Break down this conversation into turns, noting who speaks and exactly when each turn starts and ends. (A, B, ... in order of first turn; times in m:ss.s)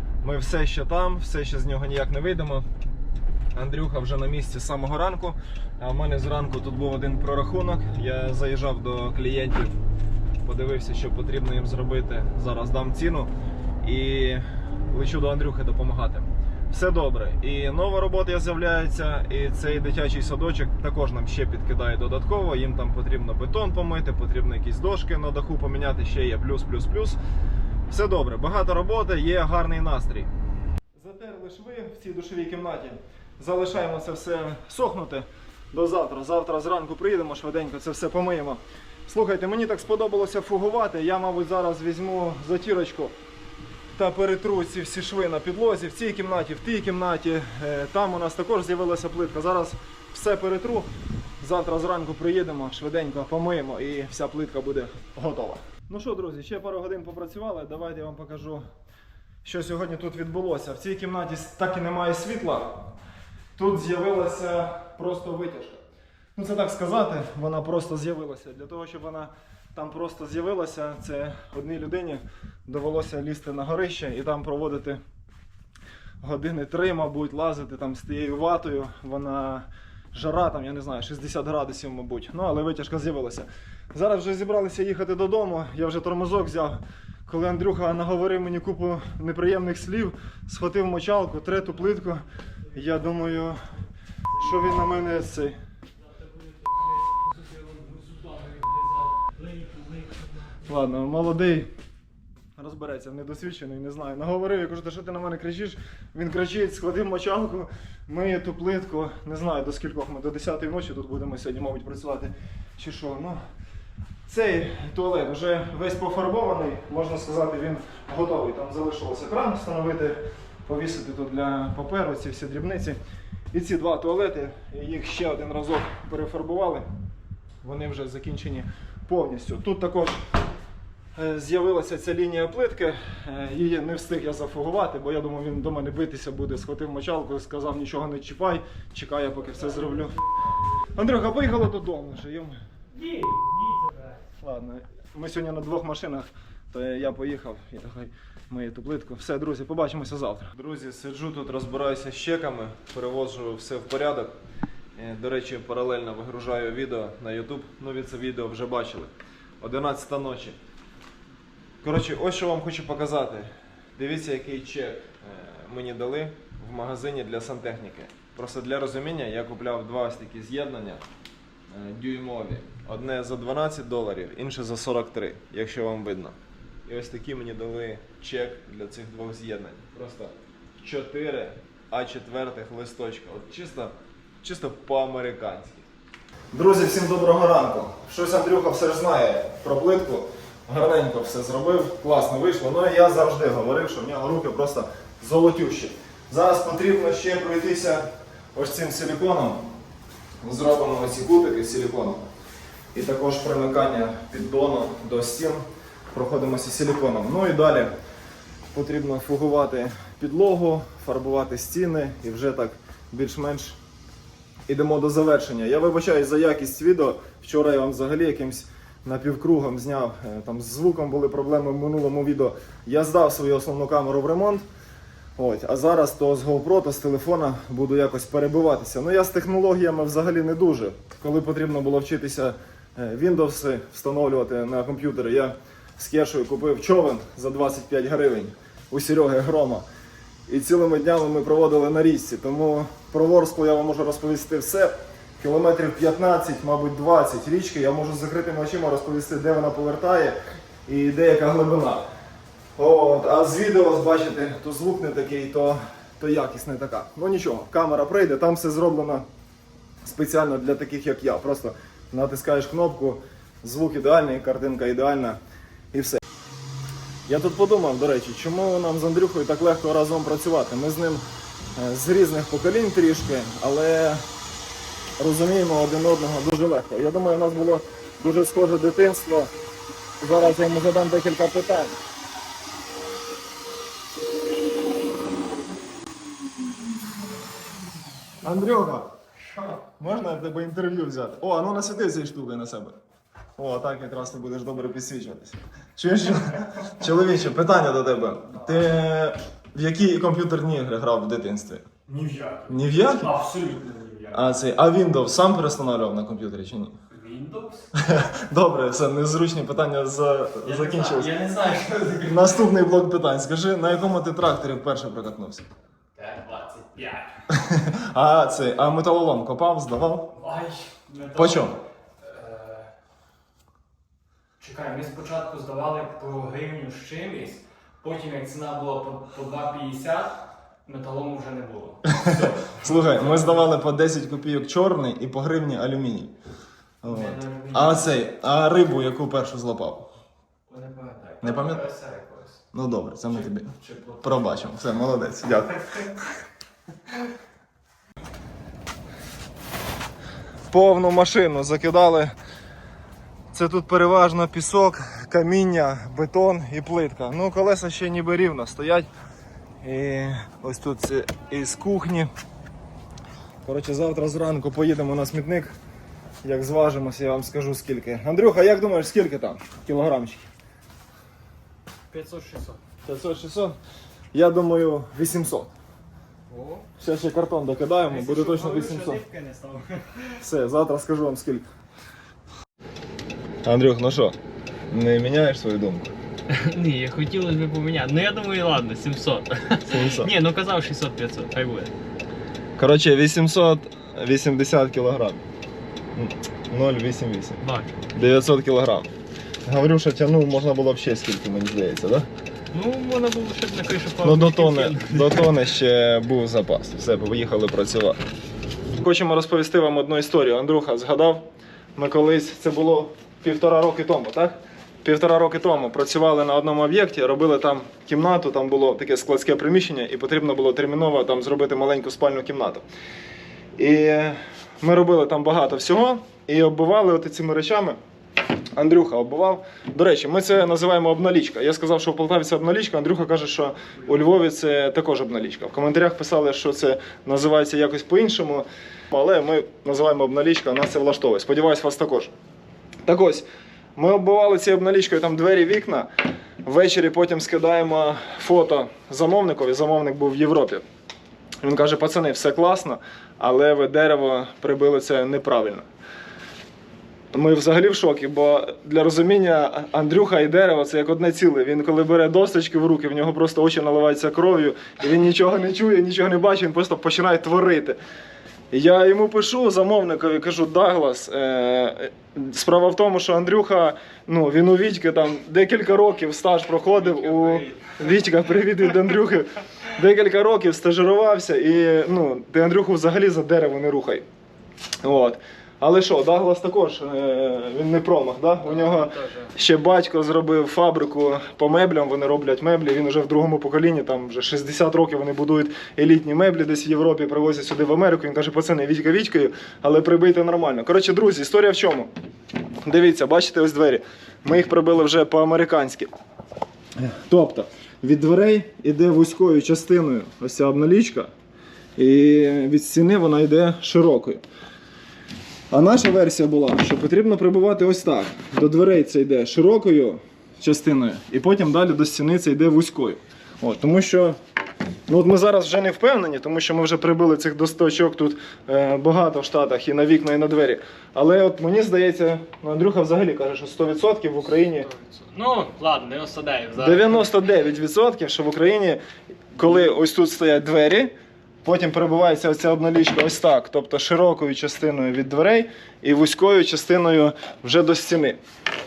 0:00.2-0:02.7 A
0:03.5-0:09.7 A
0:10.4-0:13.3 A
0:13.8-0:27.2 A
0:27.9-0:30.3 A
0:31.0-0:43.2 A
0:43.9-0:50.9 A
0:51.4-0:58.6 A
0:59.4-1:02.9 A
1:03.6-1:05.8 A
1:06.4-1:15.0 A
1:16.2-1:33.6 A
1:34.3-1:35.6 A
1:36.2-1:40.5 B
1:40.6-1:41.7 A
1:42.6-1:53.4 A
1:54.3-2:03.0 A
2:03.5-2:06.9 A
2:07.6-2:10.2 A
2:11.2-2:20.2 A
2:19.6-2:20.0 B
2:21.0-2:22.6 A
2:22.9-2:24.2 B
2:24.4-2:34.4 A
2:35.0-2:40.6 A
2:41.8-2:51.0 A
2:51.7-3:05.9 A
3:06.5-3:19.7 A
3:20.4-3:22.2 A
3:22.9-3:27.9 A
3:28.7-3:33.8 A
3:34.7-3:44.7 A
3:45.4-3:59.8 A
4:00.5-4:12.0 A
4:12.8-4:19.3 A
4:20.0-4:25.4 A
4:25.9-4:26.2 A
4:27.3-4:31.2 A
4:31.8-4:34.2 A
4:35.2-4:39.5 A
4:40.2-4:42.0 A
4:48.4-4:49.1 A
4:50.0-4:53.0 A
4:53.6-5:01.9 A
5:02.1-5:04.4 B
5:02.7-5:03.3 A
5:04.3-5:07.0 A
5:07.1-5:07.9 B
5:08.0-5:11.3 A
5:10.6-5:12.6 B
5:12.2-5:15.7 A
5:16.2-5:17.3 B
5:17.5-5:20.3 A
5:20.4-5:22.9 B
5:21.4-5:21.8 A
5:24.6-5:33.6 B
5:32.1-5:36.3 A
5:37.0-5:40.1 A
5:37.0-5:38.2 B
5:40.7-5:42.4 B
5:41.0-5:41.4 C
5:41.4-5:41.8 A
5:42.7-5:46.1 A
5:43.4-5:44.2 B
5:50.7-5:52.3 A
5:53.5-5:59.1 A
5:59.8-6:02.3 A
6:03.6-6:05.8 A
6:06.4-6:10.5 A
6:12.1-6:12.8 B
6:13.0-6:13.8 A
6:14.3-6:15.7 A
6:16.5-6:16.9 B
6:17.0-6:19.2 A
6:18.1-6:20.4 B
6:20.4-6:21.6 A
6:23.6-6:24.4 A
6:24.9-6:26.1 A
6:26.5-6:31.9 C
6:29.9-6:30.3 A
6:32.8-6:35.4 A
6:36.1-6:37.6 A
6:37.6-6:37.9 C
6:38.2-6:39.1 A
6:39.7-6:42.3 A
6:42.7-6:45.6 C
6:44.2-6:48.2 A
6:49.0-6:51.4 A
6:52.0-7:02.8 A
7:03.8-7:08.0 A
7:08.8-7:22.3 A
7:23.1-7:26.1 A
7:26.6-7:30.8 A
7:31.6-7:35.9 A
7:37.3-7:48.0 A
7:48.7-8:04.3 A
7:57.0-7:57.8 B
8:05.0-8:22.1 A
8:08.6-8:09.5 B
8:22.8-8:26.1 A
8:27.0-8:31.3 A
8:32.0-8:34.4 A
8:35.7-8:44.4 A
8:45.1-8:54.9 A
8:54.8-8:57.3 B
8:56.8-8:59.0 A
8:59.5-9:01.1 A
9:01.6-9:08.4 A